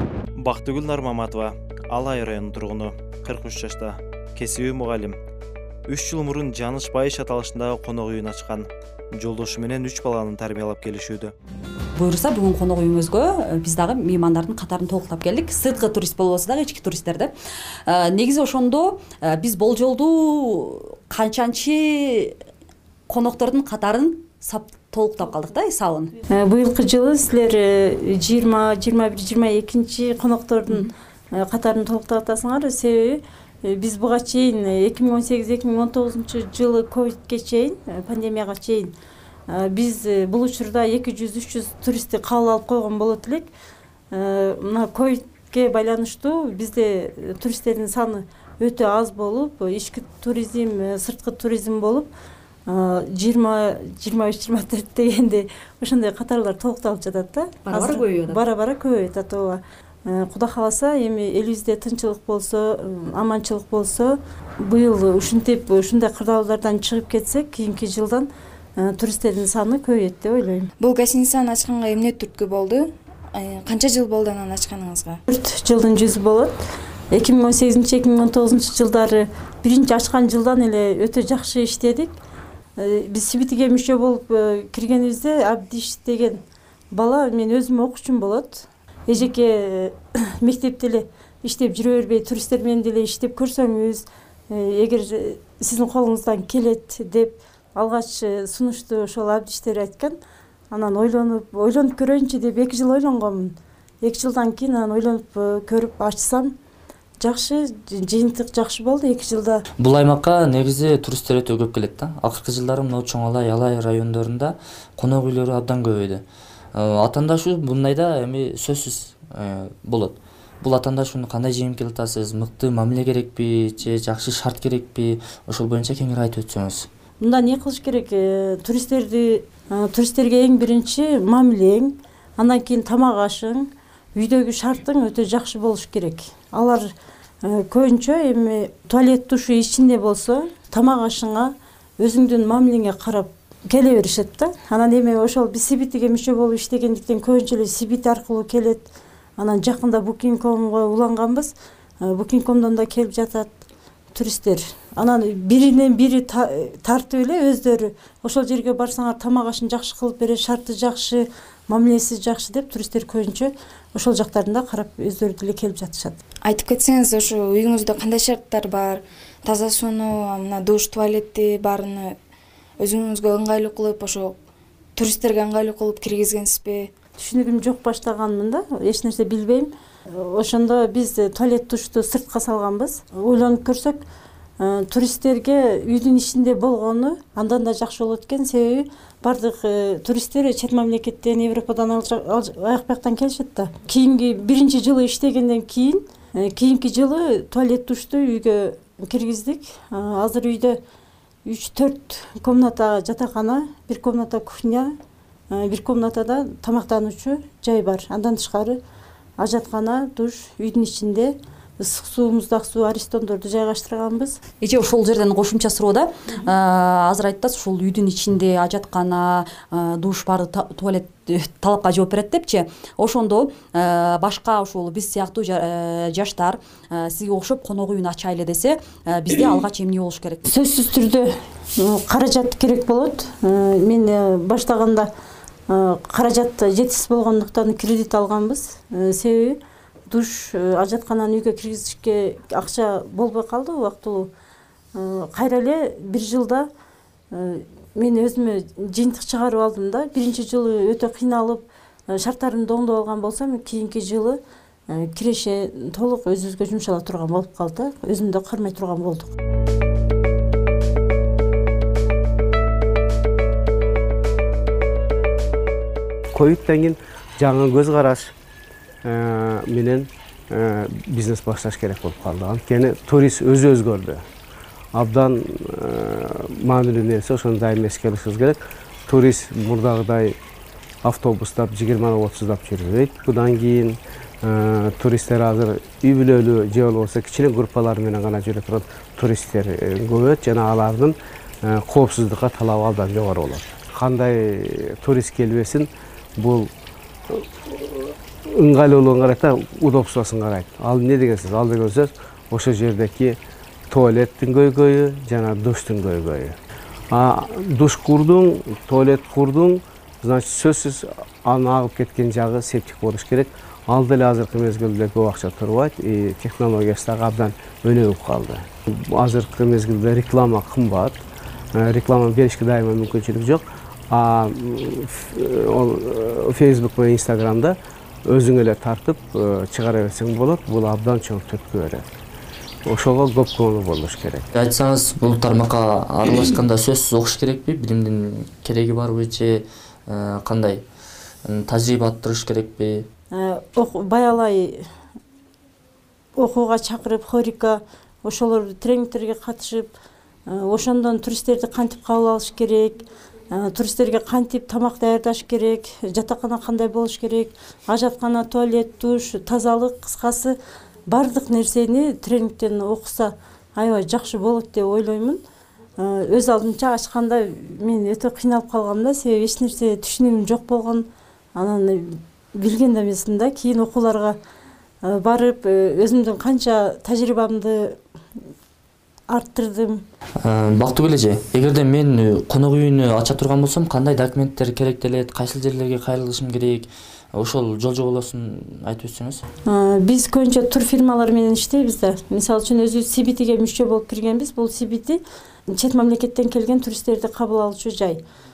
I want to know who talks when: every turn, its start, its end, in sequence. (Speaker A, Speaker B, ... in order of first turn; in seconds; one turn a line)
Speaker A: 0.4-5.2
Speaker A: 5.9-11.3
Speaker B: 11.9-17.3
Speaker B: 17.9-22.4
Speaker B: 23.1-26.1
Speaker C: 26.3-38.9
Speaker C: 39.5-43.5
Speaker C: 44.1-52.1
Speaker C: 52.7-70.7
Speaker B: 57.7-58.4
Speaker D: 70.8-75.2
Speaker C: 75.3-76.6
Speaker C: 77.1-82.1
Speaker C: 82.8-86.4
Speaker C: 86.9-100.2
Speaker C: 100.7-106.5
Speaker C: 107.2-109.6
Speaker E: 109.8-126.9
Speaker C: 127.2-136.9
Speaker C: 137.4-153.5
Speaker C: 154.1-166.2
Speaker D: 166.4-172.2
Speaker D: 172.8-174.4
Speaker D: 175.0-176.9
Speaker C: 177.2-184.0
Speaker C: 184.6-200.8
Speaker C: 201.4-204.9
Speaker C: 205.5-208.8
Speaker C: 209.4-214.4
Speaker B: 214.6-230.5
Speaker C: 230.5-235.1
Speaker C: 235.7-244.3
Speaker C: 244.9-246.7
Speaker C: 247.3-259.3
Speaker F: 266.3-268.3
Speaker F: 269.0-274.2
Speaker F: 274.9-280.4
Speaker F: 281.0-296.7
Speaker F: 297.3-303.4
Speaker F: 303.9-306.6
Speaker F: 307.1-321.2
Speaker F: 321.8-332.1
Speaker F: 332.9-334.5
Speaker E: 334.5-340.8
Speaker E: 341.5-343.1
Speaker C: 343.3-344.8
Speaker C: 346.4-349.9
Speaker C: 350.5-360.6
Speaker C: 361.1-365.4
Speaker C: 366.0-374.4
Speaker C: 375.0-378.0
Speaker C: 379.3-380.0
Speaker E: 380.4-389.4
Speaker C: 389.7-398.2